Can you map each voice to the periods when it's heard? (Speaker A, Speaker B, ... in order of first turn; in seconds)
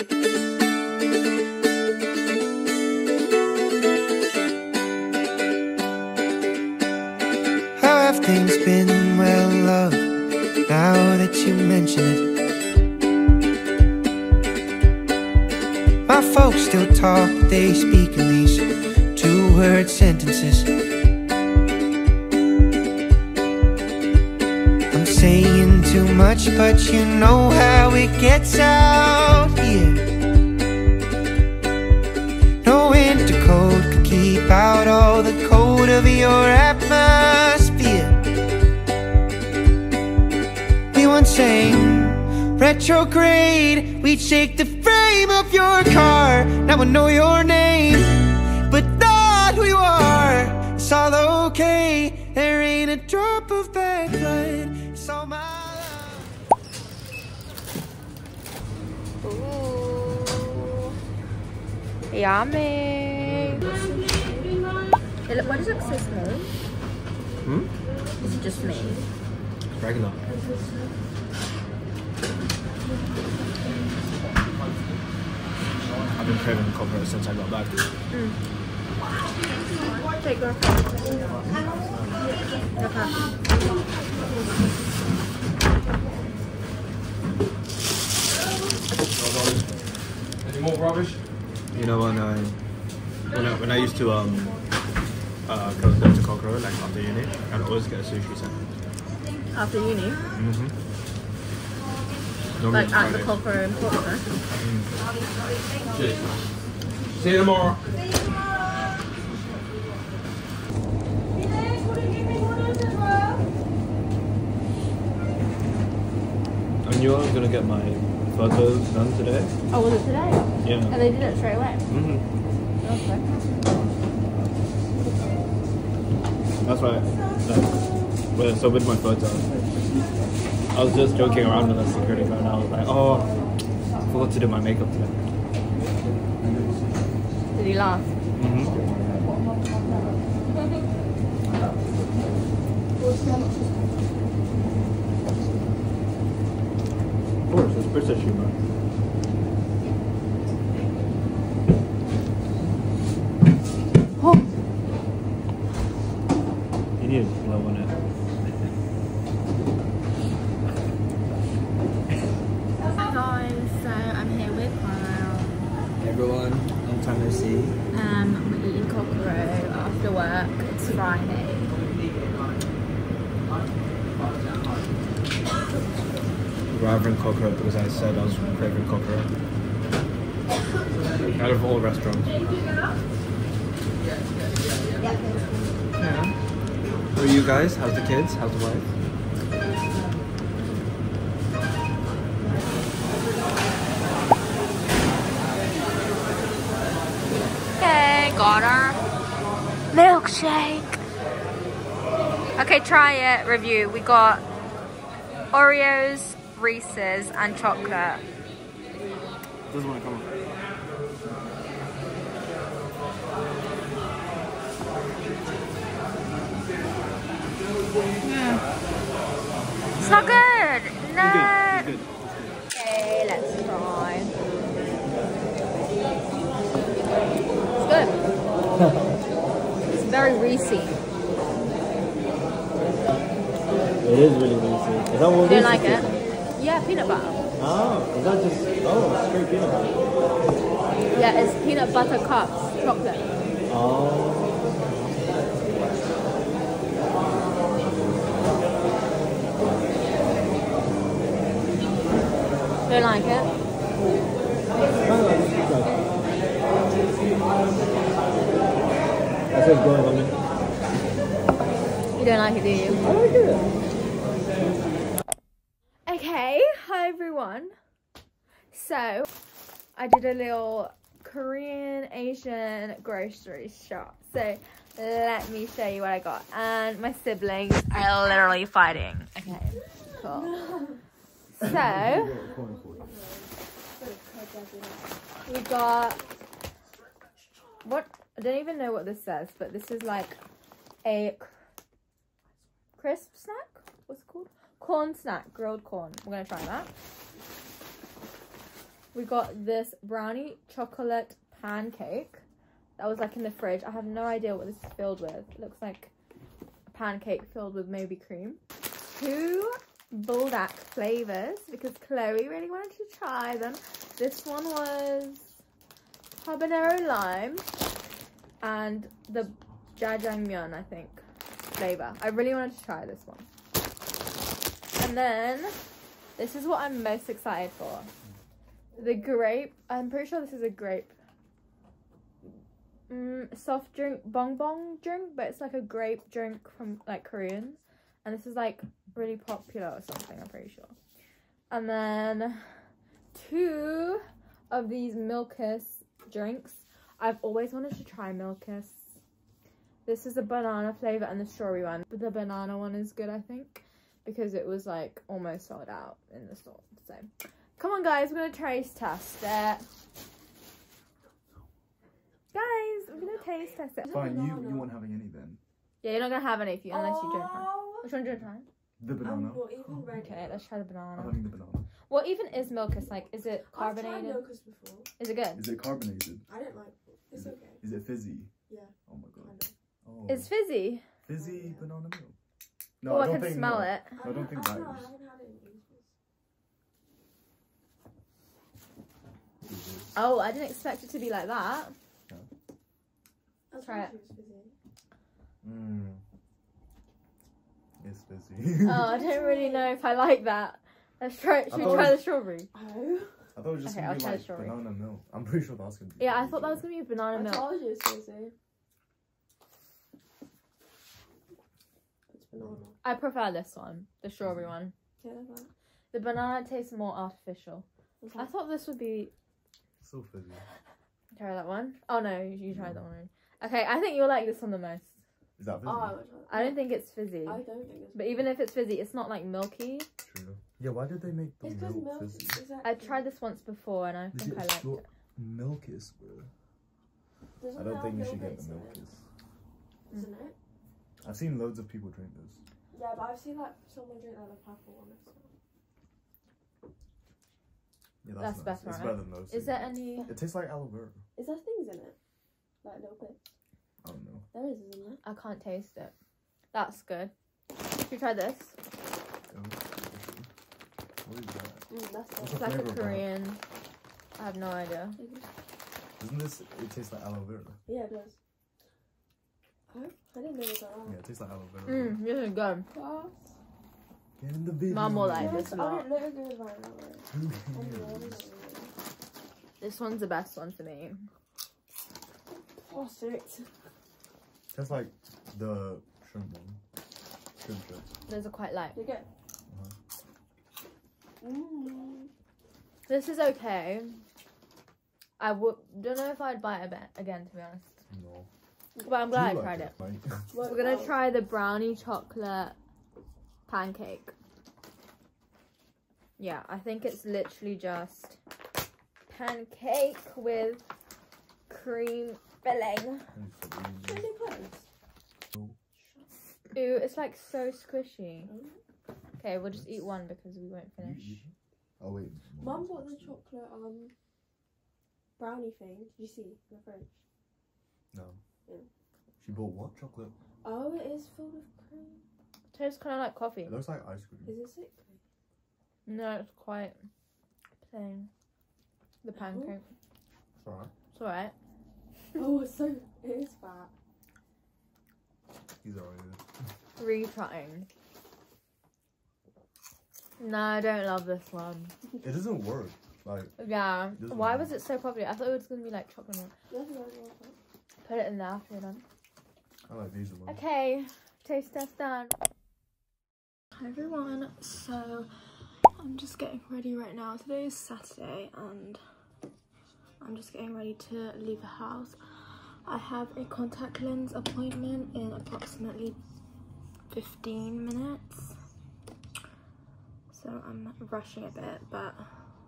Speaker A: 7.8-10.1, 10.7-12.3, 16.1-20.7, 24.9-30.1, 32.6-38.2, 40.9-56.3
Speaker B: 59.2-60.7, 62.1-63.6, 65.3-66.5, 68.2-69.0, 78.1-78.4, 80.1-81.0, 82.8-83.2, 99.5-100.2, 102.7-104.3, 119.7-121.8, 122.8-123.3, 137.5-138.1, 162.9-165.6, 167.9-171.7, 197.8-199.0, 199.9-201.0, 202.6-204.4, 205.5-208.2, 218.2-218.6, 220.0-221.9, 222.7-224.3, 227.8-228.2, 229.9-231.0, 235.4-237.4, 241.1-243.3, 252.8-253.5, 262.2-263.0, 266.1-267.7, 268.7-269.3, 269.9-280.5, 281.6-282.3, 285.4-286.2, 287.8-290.4, 291.0-291.5, 293.0-296.9, 299.1-302.4, 303.0-306.1, 306.9-308.6, 309.1-315.5, 316.4-317.6, 318.6-321.2, 321.8-323.5, 324.9-325.8, 326.4-328.1, 329.0-331.1, 333.1-340.9, 341.7-342.6, 343.3-349.1, 350.1-359.8, 362.5-364.3, 366.0-368.7, 370.2-371.4, 372.1-374.5, 375.2-375.6, 380.3-381.0, 383.1-384.2, 390.1-391.9, 393.8-394.1, 398.8-402.7, 403.9-404.8, 406.2-407.7, 413.0-414.9, 416.1-419.3, 421.3-425.2, 426.5-427.6, 428.1-430.1, 432.8-435.1, 448.4-450.3, 455.2-456.1, 456.7-457.3, 458.0-458.7, 462.5-463.6, 464.4-465.2, 471.9-472.9, 474.9-476.1, 479.8-481.3, 488.3-489.0, 493.1-494.2, 495.4-498.0, 499.0-499.9, 500.6-502.8, 503.7-504.3, 506.4-508.4, 509.3-510.8, 511.7-513.3, 516.7-518.5, 519.4-521.4, 532.7-533.8, 536.0-537.0, 537.8-538.3, 539.2-539.9, 541.1-541.5, 547.0-547.9, 550.4-551.9, 553.6-556.5, 558.0-559.0, 560.5-562.3, 563.8-565.3, 566.0-569.0, 570.2-572.2, 572.9-576.2, 577.1-578.5, 580.3-582.4
Speaker C: 67.4-67.7, 69.7-70.2, 76.1-77.9, 89.1-89.7, 90.4-91.2, 91.7-92.6, 93.3-94.6, 95.5-98.6, 100.3-100.7, 102.6-103.4, 104.6-104.9, 105.9-106.2, 107.2-107.8, 116.8-119.5, 120.6-121.0, 121.9-122.2, 126.6-127.8, 128.3-129.5, 130.7-133.3, 134.1-135.2, 138.3-138.8, 147.5-148.6, 157.0-157.9, 166.0-167.8, 176.7-179.3, 181.3-182.3, 186.0-186.3, 187.1-188.8, 209.7-210.3, 221.2-222.3, 234.0-236.2, 237.6-240.0, 243.7-245.2, 254.9-256.0, 259.5-260.4, 263.0-263.7
Speaker D: 143.0-143.7, 280.1-281.0, 282.3-285.1, 328.9-329.2, 364.0-365.0, 366.9-368.1, 369.2-370.6, 373.6-375.1, 376.5-377.8, 378.7-379.7, 381.3-381.9, 384.1-386.1, 393.7-394.7, 399.0-399.9, 401.7-403.4, 407.3-408.5, 412.3-412.9, 415.2-415.7, 418.2-418.5, 425.8-426.8, 427.4-428.3, 431.6-433.3, 437.6-439.0, 440.1-440.6, 442.9-445.5, 451.4-452.2, 452.8-453.5, 454.5-455.2, 461.9-462.6, 465.2-465.5, 467.9-468.4, 469.9-471.2, 472.9-473.5, 475.3-478.9, 482.9-483.7, 488.9-489.3, 491.4-492.3, 500.5-501.2, 514.0-514.9, 515.9-516.2, 518.5-518.8, 522.6-524.1, 525.4-527.1, 530.6-532.2, 534.4-535.2, 539.3-539.8, 542.3-543.9, 556.7-557.5
Speaker E: 281.6-283.1, 364.1-365.6, 369.0-370.3, 371.1-371.9, 375.6-376.4, 377.3-378.5, 379.1-380.5, 381.2-382.4, 383.0-385.1, 389.6-390.1, 395.6-396.2, 398.0-399.2, 401.7-402.2, 403.6-406.8, 414.4-414.7, 420.0-420.6, 422.7-423.0, 425.6-426.2, 430.2-432.6, 434.3-436.5, 437.7-439.2, 441.2-442.6, 448.2-451.2, 454.0-454.5, 459.5-460.5, 461.2-463.3, 466.2-467.8, 471.0-472.2, 474.4-475.8, 477.3-478.5, 484.7-486.8, 487.6-488.1, 489.7-489.9, 498.1-498.5, 499.3-500.5, 513.3-514.3, 519.7-520.0, 521.0-523.4, 528.1-528.4, 529.4-530.3, 533.6-534.6, 540.6-540.9, 545.8-546.4, 552.2-553.5, 554.1-554.7, 559.9-560.6